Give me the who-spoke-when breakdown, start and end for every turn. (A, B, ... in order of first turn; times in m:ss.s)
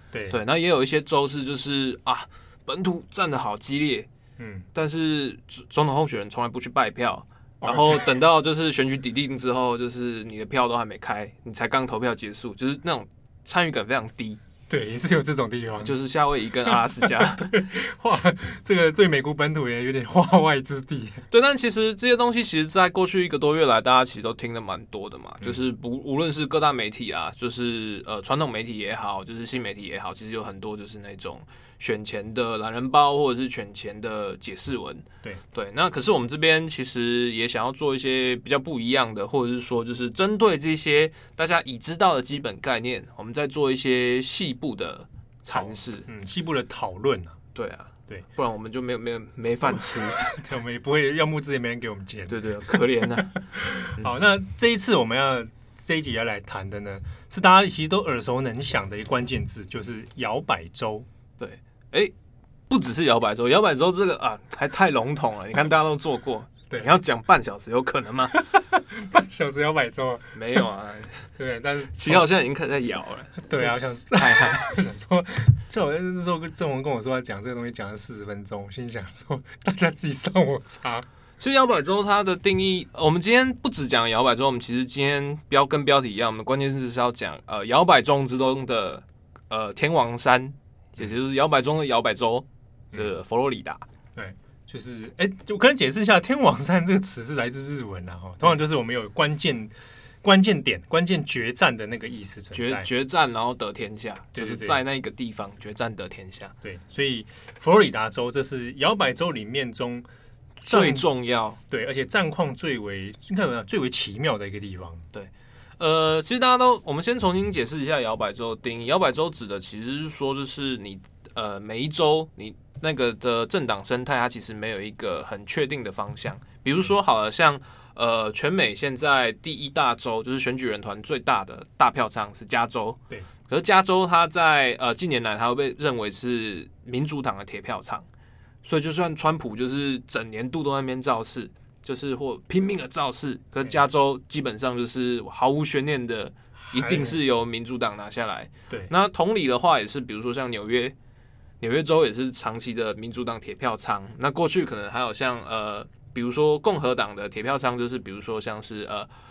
0:00.1-0:00.4 A
0:00.3-0:04.1 B
0:04.4-0:04.7 A
0:04.7-0:14.4 B
0:07.6-0:08.2 A
0:14.7-0:16.0 A
0:15.8-0:17.6 B
0:17.0-0:21.2 A
0:21.3-0:46.1 B
0:45.5-0:47.4 A
0:47.6-0:50.4 B
0:50.2-0:52.8 A
0:52.3-0:53.4 B
0:53.4-1:01.1 A
1:01.4-1:02.1 B
1:02.7-1:08.3 B
1:08.4-1:10.6 A
1:10.3-1:11.3 B
1:11.4-1:12.3 A
1:11.9-1:14.7 B
1:13.4-1:21.1 A
1:21.4-1:33.9 B
1:34.2-1:39.7 A
1:40.2-1:42.9 A
1:42.5-1:46.5 B
1:44.4-1:44.8 A
1:46.6-1:50.1 A
1:50.6-1:51.6 B
1:50.7-1:51.1 A
1:51.7-1:55.0 A
1:55.1-2:18.1 B
2:18.6-2:31.0 B
2:26.6-2:27.2 A
2:31.6-2:39.1 B